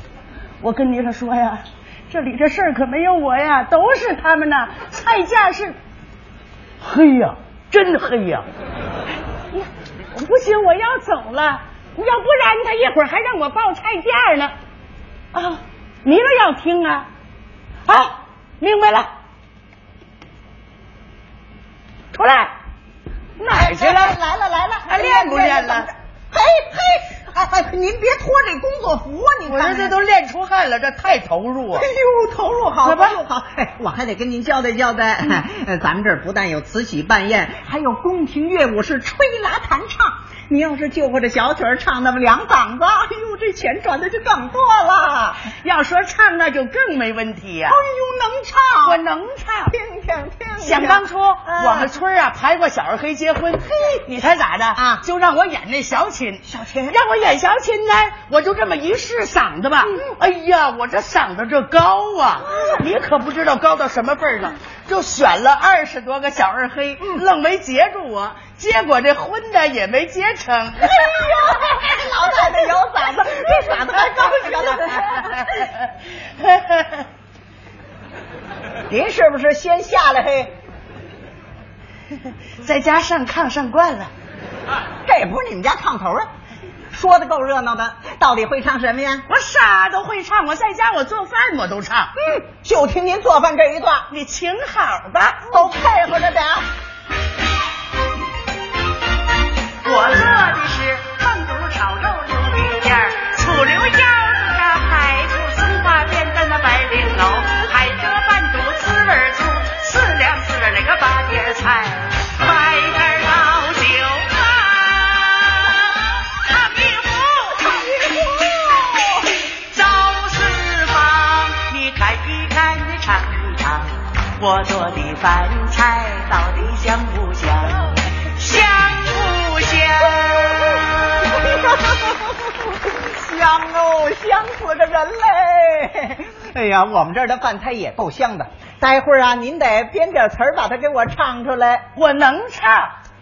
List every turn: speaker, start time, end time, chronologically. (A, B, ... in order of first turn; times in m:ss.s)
0:00.6-0:05.8 A
0:06.8-0:08.4 A
0:09.5-0:14.5 A
0:15.3-0:17.1 A
0:17.9-0:19.1 A
0:22.1-0:22.5 A
0:23.4-0:24.2 A
0:23.5-0:30.0 B
0:24.9-0:25.9 A
0:29.5-0:31.9 A
0:31.7-0:45.4 B
0:32.8-0:33.2 A
0:45.5-0:47.8 A
0:47.7-0:49.0 B
0:48.8-0:49.7 A
0:49.7-0:51.9 B
0:50.6-1:11.8 A
0:54.8-0:55.0 B
0:56.4-0:57.0 B
1:02.4-1:02.8 B
1:10.8-1:15.5 B
1:13.4-1:17.0 A
1:18.9-1:20.5 B
1:22.1-1:24.1 A
1:25.0-1:26.3 B
1:26.9-1:29.2 B
1:29.3-1:32.1 A
1:32.2-1:34.1 B
1:34.1-1:35.5 A
1:35.5-1:36.6 B
1:39.8-1:57.9 A
1:57.6-1:59.4 B
1:59.6-2:11.0 A
2:11.2-2:21.8 B
2:22.0-2:22.9 A